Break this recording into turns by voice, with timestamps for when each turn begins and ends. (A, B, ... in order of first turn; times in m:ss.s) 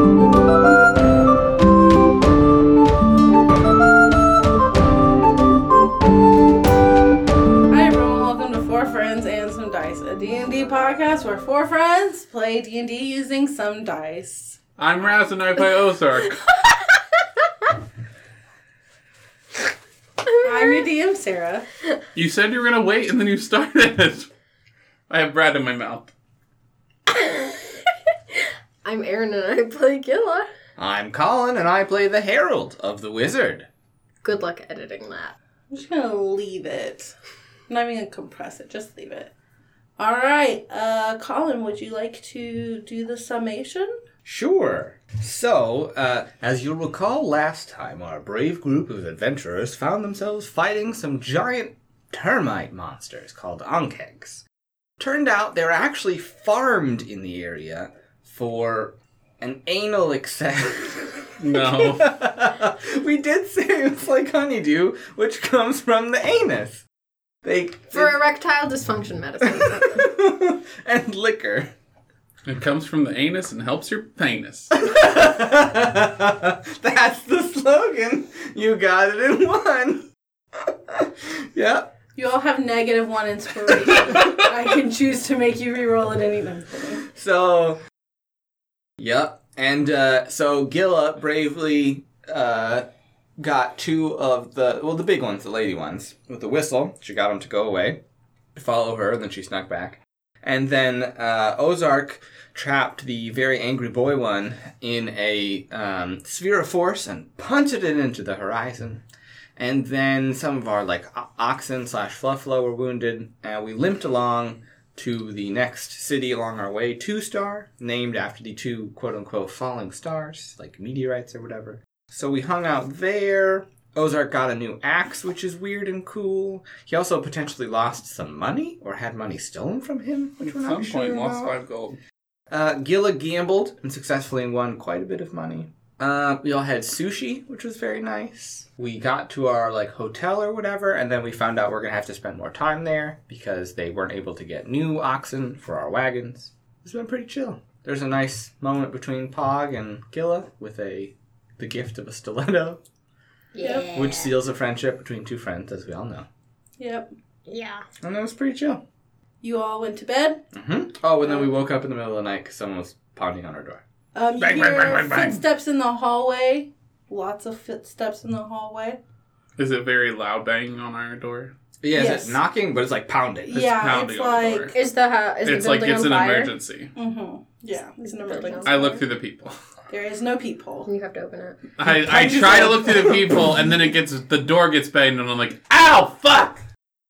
0:07.7-0:14.6 A
0:14.8-0:16.5 B
0:20.2-0:20.9 C
0:20.4-0:21.7 A
0:22.2-0:24.3 B
0:25.1-0:26.1 B
0:27.1-0:30.5 C
0:30.8-0:33.7 D
0:34.2-0:35.3 C
0:35.7-0:37.1 A
0:37.7-0:39.3 A
0:40.0-0:43.9 A
0:44.2-0:54.4 D
0:55.0-1:06.8 D
1:01.4-1:02.1 B
1:07.4-1:08.2 D
1:07.9-1:10.0 C
1:09.4-1:11.7 D
1:12.5-1:14.7 B
1:14.7-1:21.9 D
1:22.2-1:27.1 A
1:27.0-1:27.8 D
1:29.0-1:32.9 D
1:33.4-1:38.0 D
1:38.6-1:49.0 D
1:49.6-2:11.6 D
2:10.4-2:12.0 B
2:12.5-2:32.8 D
2:33.5-2:34.3 C
2:33.6-2:34.0 A
2:33.9-2:36.3 D
2:36.8-2:37.1 A
2:37.5-2:37.8 C
2:38.0-2:38.8 D
2:39.4-2:40.4 A
2:40.5-2:43.8 D
2:41.2-2:41.6 A
2:44.1-2:49.0 A
2:44.4-2:45.3 B
2:44.7-2:45.4 D
2:49.6-2:51.5 B
2:51.8-2:53.7 D
2:51.9-2:52.4 A
2:53.5-2:54.8 A
2:53.5-2:54.8 B
2:54.7-2:56.5 C
2:55.4-2:56.9 B
2:57.0-2:59.0 A
2:58.2-2:58.8 C
2:58.6-2:59.6 B
2:59.9-3:00.9 A
3:00.8-3:01.6 C
3:01.8-3:06.6 B
3:01.8-3:03.4 A